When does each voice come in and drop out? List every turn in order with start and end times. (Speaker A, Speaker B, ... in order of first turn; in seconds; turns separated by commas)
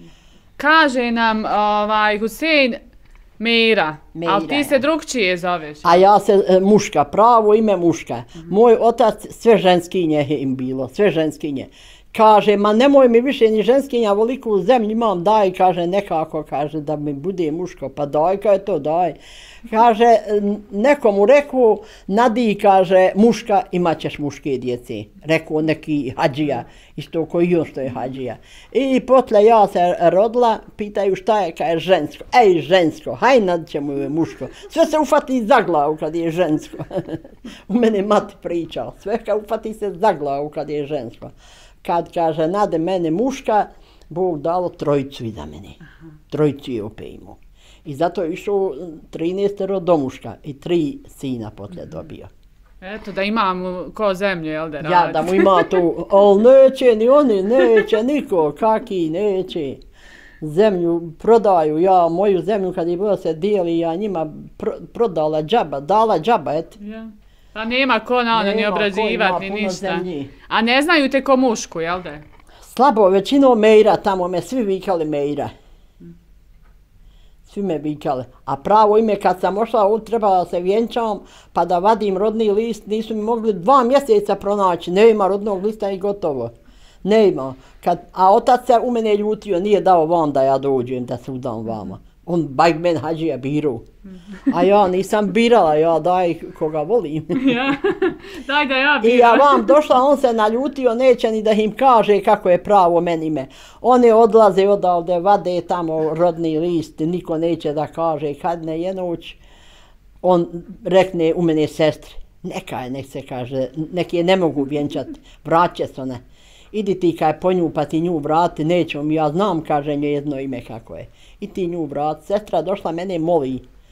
Speaker A: 0.6-2.8, Speaker A: 3.4-6.0, Speaker B: 4.1-4.8, Speaker B: 5.8-41.3, Speaker B: 41.8-45.8, Speaker B: 46.3-52.3, Speaker A: 52.8-55.8, Speaker B: 54.8-59.8, Speaker B: 60.4-66.8, Speaker A: 66.8-72.2, Speaker B: 68.3-70.3, Speaker B: 72.7-75.5, Speaker B: 77.5-86.5, Speaker B: 87.0-93.9, Speaker B: 94.5-97.8, Speaker A: 97.3-99.8, Speaker B: 99.0-109.4, Speaker B: 110.2-123.7